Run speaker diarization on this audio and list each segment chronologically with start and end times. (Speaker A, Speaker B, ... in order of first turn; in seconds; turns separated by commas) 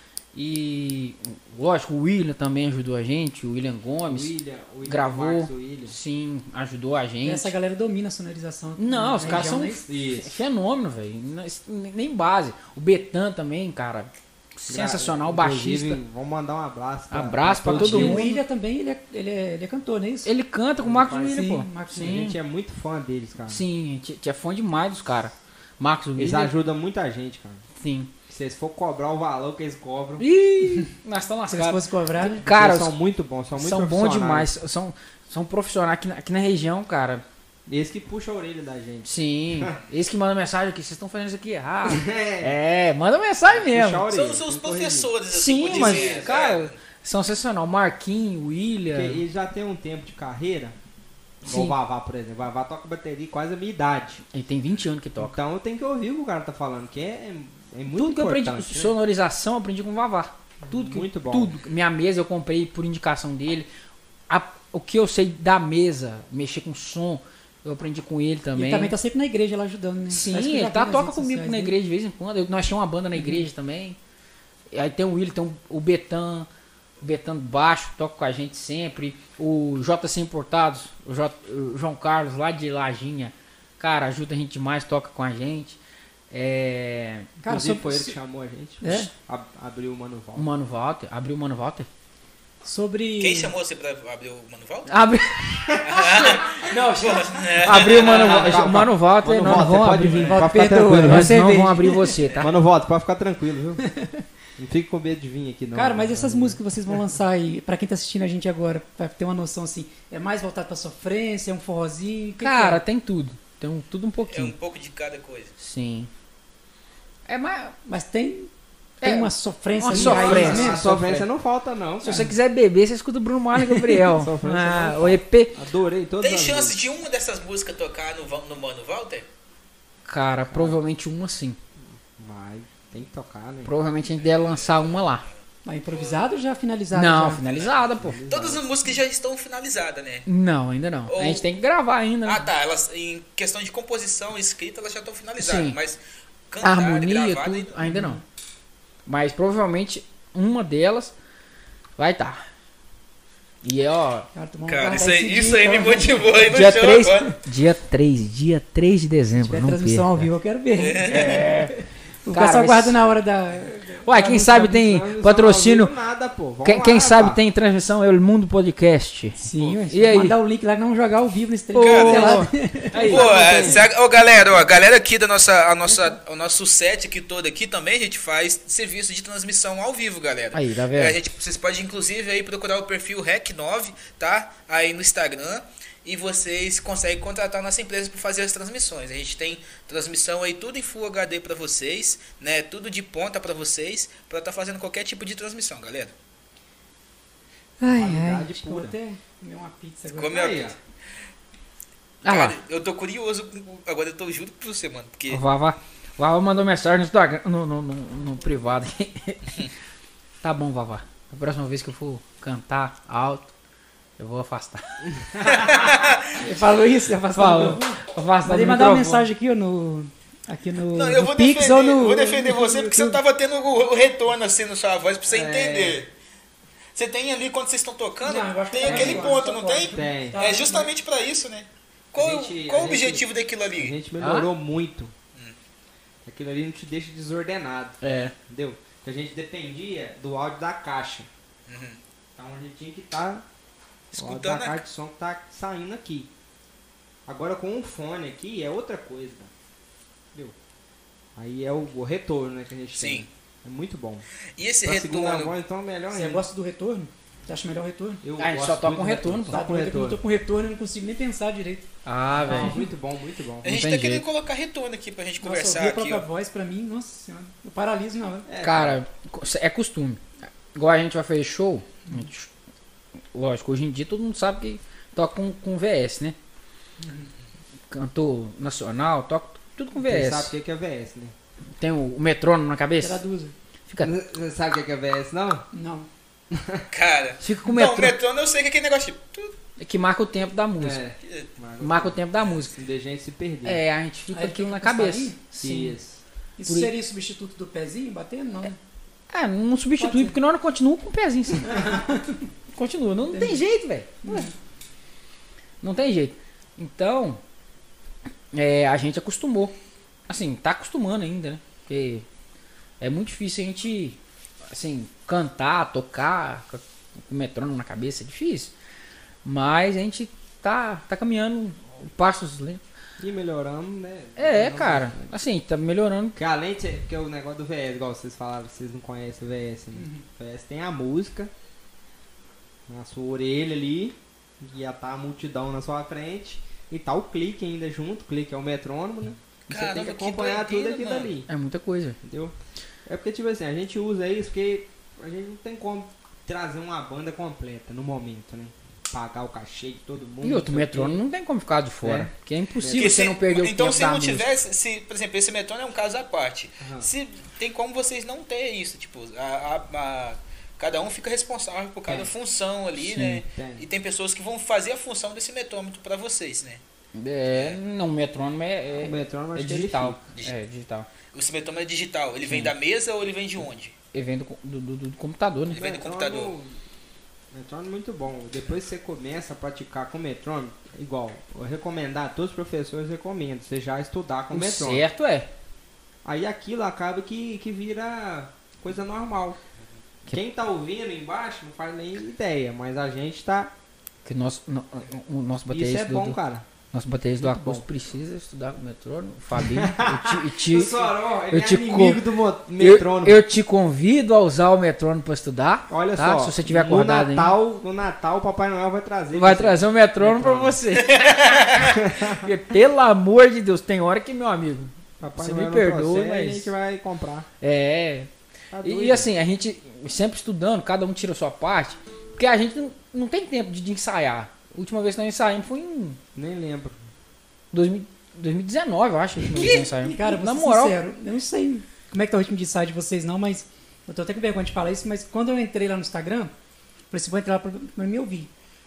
Speaker A: 0.3-4.3, Speaker B: 4.0-6.0, Speaker A: 4.8-7.5, Speaker C: 7.2-9.8, Speaker A: 8.8-16.0, Speaker B: 9.2-10.3, Speaker B: 14.7-18.3, Speaker A: 17.1-18.4, Speaker C: 17.7-20.3, Speaker A: 20.2-22.4, Speaker B: 20.8-23.6, Speaker C: 21.3-22.2, Speaker A: 23.5-26.5, Speaker B: 26.2-27.6, Speaker A: 27.8-28.1, Speaker B: 28.3-30.2, Speaker A: 30.2-32.9, Speaker C: 31.5-32.4, Speaker B: 32.3-34.5, Speaker A: 33.5-37.2, Speaker B: 37.7-39.8, Speaker A: 39.0-44.1, Speaker B: 41.9-42.5, Speaker B: 43.5-45.1, Speaker D: 44.1-46.7, Speaker A: 45.3-49.2, Speaker B: 45.6-46.3, Speaker B: 48.9-50.8, Speaker A: 51.4-51.8, Speaker B: 51.4-54.2, Speaker A: 54.3-55.4, Speaker B: 55.2-58.9, Speaker A: 57.9-63.7, Speaker B: 60.6-61.5, Speaker A: 64.3-68.9, Speaker C: 68.5-71.7, Speaker A: 70.1-74.0, Speaker C: 73.1-73.5, Speaker A: 74.7-76.5, Speaker A: 77.0-85.8, Speaker A: 86.3-87.3, Speaker C: 87.4-88.1, Speaker B: 87.5-90.5, Speaker C: 88.8-89.1, Speaker A: 90.3-91.9, Speaker C: 92.6-93.5, Speaker D: 93.2-94.9, Speaker A: 94.9-102.5, Speaker D: 95.8-98.6, Speaker C: 96.7-97.1, Speaker B: 97.7-101.5, Speaker C: 100.1-102.2, Speaker B: 102.4-103.8, Speaker B: 104.6-107.0, Speaker C: 105.7-112.8, Speaker A: 112.4-114.5, Speaker D: 114.3-115.5, Speaker A: 115.6-116.1, Speaker A: 117.3-117.8, Speaker C: 117.8-120.8, Speaker A: 119.0-121.2, Speaker B: 119.9-122.3, Speaker A: 122.0-125.5, Speaker C: 122.0-122.3, Speaker B: 124.0-126.8, Speaker D: 126.2-129.3, Speaker A: 130.0-131.6, Speaker B: 130.5-130.8, Speaker B: 131.8-133.7, Speaker A: 133.6-135.2, Speaker D: 134.2-135.3, Speaker C: 135.6-137.4, Speaker D: 135.9-136.4, Speaker A: 136.9-138.2, Speaker D: 137.4-140.3, Speaker B: 137.9-138.6, Speaker A: 140.2-142.5, Speaker D: 141.1-141.4, Speaker D: 142.2-147.8, Speaker A: 145.4-145.8, Speaker A: 146.6-148.2, Speaker C: 147.8-148.2, Speaker A: 149.1-151.1, Speaker A: 152.0-152.4, Speaker A: 153.6-154.3, Speaker C: 154.3-156.4, Speaker D: 154.7-157.3, Speaker A: 156.5-160.3, Speaker C: 159.4-164.7, Speaker D: 160.8-161.4, Speaker A: 161.0-161.7, Speaker A: 162.3-163.0, Speaker A: 164.0-165.9, Speaker B: 164.3-167.4, Speaker A: 166.6-170.3, Speaker C: 169.4-173.7, Speaker A: 171.7-173.2, Speaker D: 171.8-172.4, Speaker B: 173.0-173.8, Speaker D: 173.0-196.1, Speaker A: 180.5-181.2, Speaker C: 197.8-200.6, Speaker B: 197.8-198.9, Speaker D: 200.1-200.8, Speaker B: 200.3-200.7, Speaker A: 202.2-202.6, Speaker D: 202.2-205.4, Speaker A: 205.3-209.6, Speaker A: 210.4-213.5, Speaker A: 214.2-215.1, Speaker B: 215.1-215.8, Speaker D: 215.4-216.3, Speaker C: 216.4-223.2, Speaker A: 217.3-219.3, Speaker D: 220.9-226.1, Speaker B: 225.3-226.0, Speaker D: 226.9-233.9, Speaker C: 228.2-230.9, Speaker B: 228.8-229.3, Speaker B: 229.9-230.4, Speaker B: 232.1-235.1, Speaker A: 234.2-234.5, Speaker B: 236.2-241.3, Speaker A: 238.0-238.3, Speaker D: 241.7-242.0, Speaker B: 242.3-243.4, Speaker D: 244.1-244.8, Speaker B: 244.2-246.3, Speaker B: 247.2-249.5, Speaker B: 251.3-254.2, Speaker D: 252.9-253.3, Speaker D: 254.6-255.5, Speaker B: 254.8-256.4, Speaker C: 256.1-258.2, Speaker B: 258.2-260.2, Speaker A: 258.4-259.6, Speaker C: 259.5-261.9, Speaker A: 262.0-262.8, Speaker B: 262.4-263.7, Speaker C: 262.4-262.9, Speaker D: 263.6-266.2, Speaker A: 263.6-264.2, Speaker C: 265.4-268.5, Speaker B: 268.4-269.0, Speaker A: 268.6-272.5, Speaker A: 273.3-276.4, Speaker C: 277.0-277.3, Speaker A: 277.9-280.5, Speaker B: 279.9-281.3, Speaker A: 281.8-283.2, Speaker C: 283.0-283.5, Speaker B: 284.0-285.6, Speaker C: 285.7-286.1, Speaker B: 286.5-286.8, Speaker D: 286.9-289.6, Speaker A: 287.4-288.1, Speaker A: 289.8-291.0, Speaker B: 290.8-293.8, Speaker D: 291.2-291.5, Speaker A: 291.8-292.7, Speaker A: 293.6-296.0, Speaker C: 294.3-295.4, Speaker B: 295.6-296.2, Speaker C: 296.6-298.8, Speaker A: 296.6-296.9, Speaker A: 299.3-301.9, Speaker C: 300.0-300.4, Speaker C: 301.6-302.4, Speaker A: 302.7-304.5, Speaker C: 303.3-303.6, Speaker C: 304.2-304.5, Speaker A: 305.8-307.4, Speaker A: 308.5-309.7, Speaker A: 310.3-312.2, Speaker A: 313.0-314.2, Speaker A: 314.7-318.7, Speaker A: 319.4-322.8, Speaker B: 323.2-325.3, Speaker A: 324.4-326.4, Speaker B: 326.4-331.5, Speaker C: 329.9-330.2, Speaker B: 332.9-341.5, Speaker D: 339.7-341.3, Speaker A: 341.5-342.2, Speaker B: 342.2-342.5, Speaker B: 343.1-351.2, Speaker A: 350.4-354.5, Speaker B: 352.0-353.2, Speaker D: 352.9-366.8, Speaker B: 356.8-357.1, Speaker A: 363.0-363.4, Speaker B: 363.5-363.9, Speaker A: 367.1-371.1, Speaker D: 367.5-367.8, Speaker B: 369.0-370.2, Speaker D: 371.3-373.9, Speaker A: 372.4-372.7, Speaker A: 374.1-375.8, Speaker D: 375.7-376.6, Speaker B: 375.7-376.7, Speaker B: 377.5-385.0, Speaker A: 384.5-385.5, Speaker B: 386.2-389.6, Speaker B: 390.3-393.7, Speaker A: 394.2-396.4, Speaker B: 395.7-396.7, Speaker A: 396.9-402.2, Speaker B: 397.4-397.8, Speaker B: 399.6-403.4, Speaker A: 402.8-407.6, Speaker B: 405.9-410.8, Speaker A: 409.3-411.6, Speaker D: 411.0-412.0, Speaker B: 411.9-412.5, Speaker A: 412.1-416.7, Speaker B: 415.2-417.5, Speaker A: 417.6-418.3, Speaker B: 418.7-419.3, Speaker A: 418.8-426.2, Speaker B: 426.3-427.0, Speaker A: 427.7-431.0, Speaker C: 429.5-436.5, Speaker C: 437.1-438.5